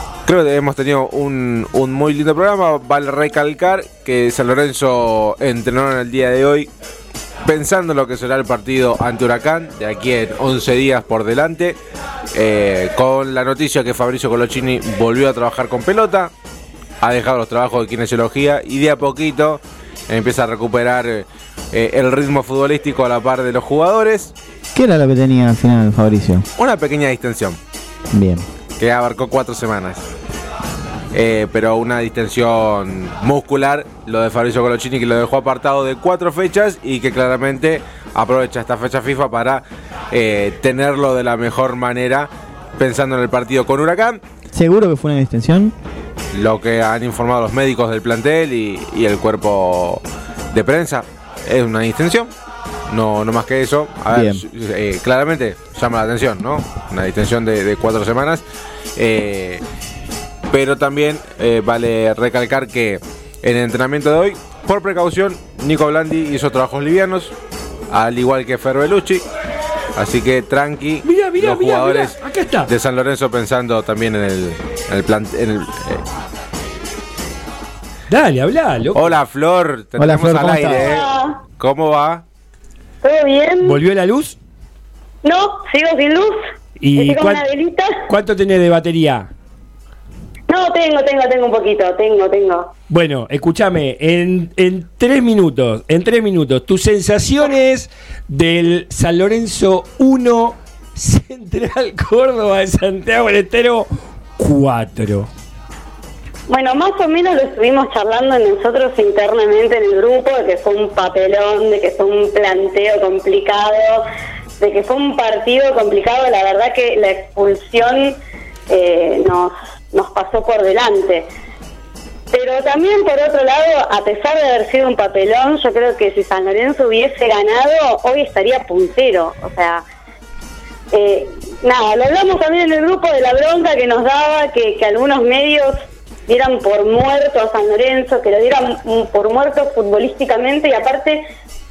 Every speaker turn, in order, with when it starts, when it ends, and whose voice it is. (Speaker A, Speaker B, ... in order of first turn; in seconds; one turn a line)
Speaker A: 0.2-6.7
Speaker A: 7.4-11.8
Speaker A: 12.3-16.3
Speaker A: 17.0-24.3
Speaker B: 24.7-26.4
Speaker A: 26.6-27.6
Speaker B: 28.1-28.4
Speaker A: 28.8-30.0
Speaker A: 31.1-44.2
Speaker B: 44.5-45.7
Speaker A: 46.3-52.3
Speaker A: 52.9-58.4
Speaker B: 54.1-54.4
Speaker A: 59.0-59.6
Speaker A: 60.5-67.3
Speaker A: 67.9-69.2
Speaker A: 70.0-76.0
Speaker C: 71.0-72.7
Speaker C: 78.1-79.2
Speaker A: 78.9-82.2
Speaker B: 80.0-80.9
Speaker D: 80.7-81.4
Speaker D: 83.0-83.8
Speaker C: 83.6-84.3
Speaker D: 85.2-86.4
Speaker C: 86.8-87.4
Speaker D: 86.9-88.0
Speaker C: 88.1-89.3
Speaker D: 90.5-92.7
Speaker C: 92.9-105.3
Speaker D: 106.5-114.0
Speaker D: 114.6-118.2
Speaker D: 118.7-121.3
Speaker D: 122.3-129.8
Speaker D: 130.9-141.2